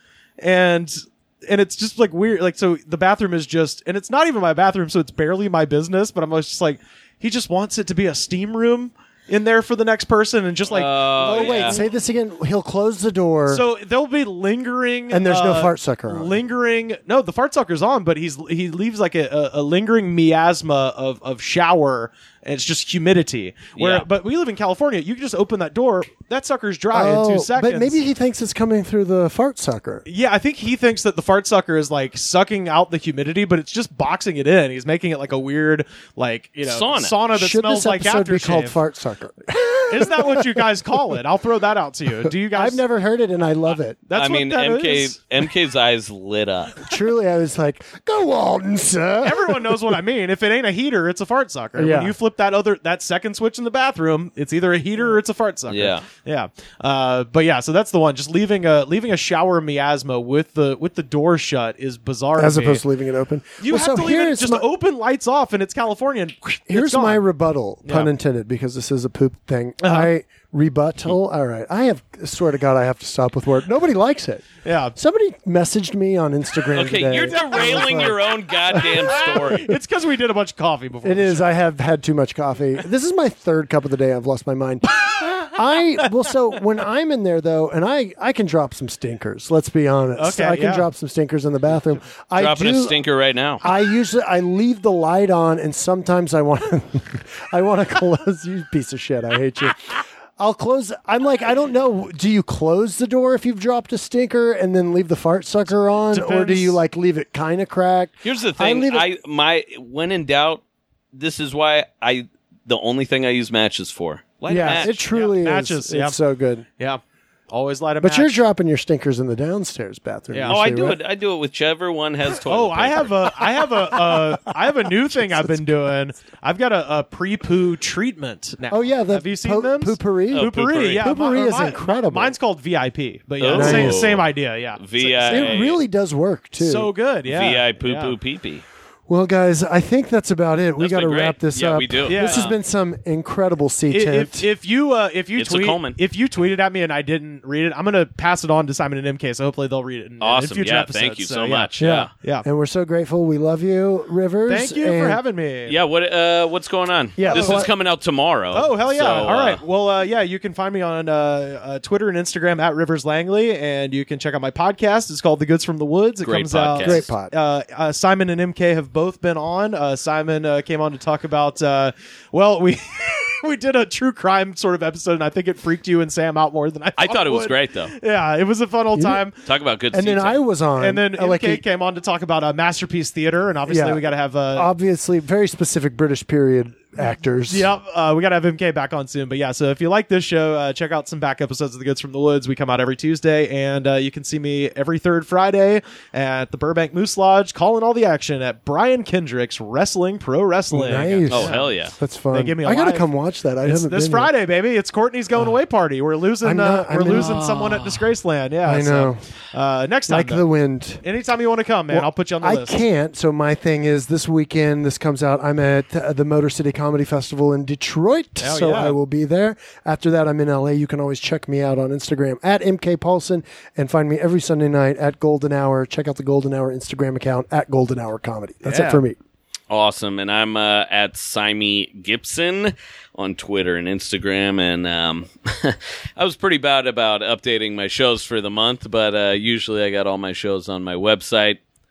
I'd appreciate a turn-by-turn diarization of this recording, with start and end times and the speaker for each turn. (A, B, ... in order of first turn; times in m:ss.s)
0:00.4-0:12.0 A
0:10.7-0:11.8 B
0:11.3-0:13.6 C
0:13.5-0:28.0 A
0:15.1-0:16.4 C
0:23.8-0:24.1 B
0:26.9-0:30.1 C
0:30.1-0:38.8 A
0:36.6-0:37.2 B
0:37.3-0:41.0 C
0:39.9-0:42.8 A
0:42.5-0:44.0 C
0:44.1-0:45.2 A
0:44.1-0:46.9 B
0:46.8-0:49.9 C
0:49.2-1:02.8 A
0:51.8-0:52.2 C
0:55.7-0:56.1 B
1:02.4-1:04.7 C
1:03.6-1:07.2 A
1:06.7-1:18.2 C
1:07.8-1:08.1 A
1:09.8-1:10.1 A
1:14.6-1:15.0 A
1:16.8-1:19.7 B
1:17.2-1:18.1 A
1:18.7-1:19.2 C
1:18.8-1:21.6 A
1:21.0-1:33.0 C
1:25.0-1:26.4 A
1:30.2-1:30.9 A
1:32.4-1:33.6 B
1:33.6-1:49.1 C
1:46.1-1:46.8 A
1:48.2-1:54.9 B
1:54.5-1:56.2 A
1:54.5-1:56.7 C
1:56.8-1:58.4 A
1:58.0-2:01.0 C
2:00.3-2:00.9 A
2:00.5-2:03.3 B
2:02.5-2:15.6 A
2:05.1-2:05.7 C
2:08.7-2:12.4 C
2:10.3-2:11.1 B
2:13.4-2:15.8 B
2:13.5-2:14.1 C
2:15.2-2:16.9 C
2:16.6-2:18.2 A
2:17.3-2:18.6 B
2:19.1-2:24.5 C
2:20.8-2:22.6 B
2:22.1-2:22.5 A
2:23.9-2:32.5 A
2:25.4-2:26.0 B
2:30.2-2:32.1 B
2:31.8-2:35.2 C
2:34.5-2:35.8 A
2:35.7-2:39.6 B
2:37.2-2:37.7 C
2:37.2-2:37.6 A
2:38.5-2:59.4 A
2:46.2-2:47.0 B
2:46.8-2:47.3 C
2:57.0-2:58.0 B
2:58.9-2:59.2 C
2:59.4-3:00.4 B
2:59.9-3:01.6 C
3:00.8-3:04.7 A
3:03.6-3:07.7 C
3:07.5-3:21.7 A
3:20.7-3:24.3 C
3:21.3-3:22.0 B
3:22.3-3:23.1 A
3:23.6-3:30.4 A
3:26.4-3:27.4 C
3:27.1-3:28.1 B
3:28.6-3:29.2 C
3:30.1-3:31.0 C
3:31.0-3:32.8 A
3:31.9-3:49.2 C
3:38.4-3:39.0 A
3:48.6-3:49.0 A
3:49.7-4:01.6 B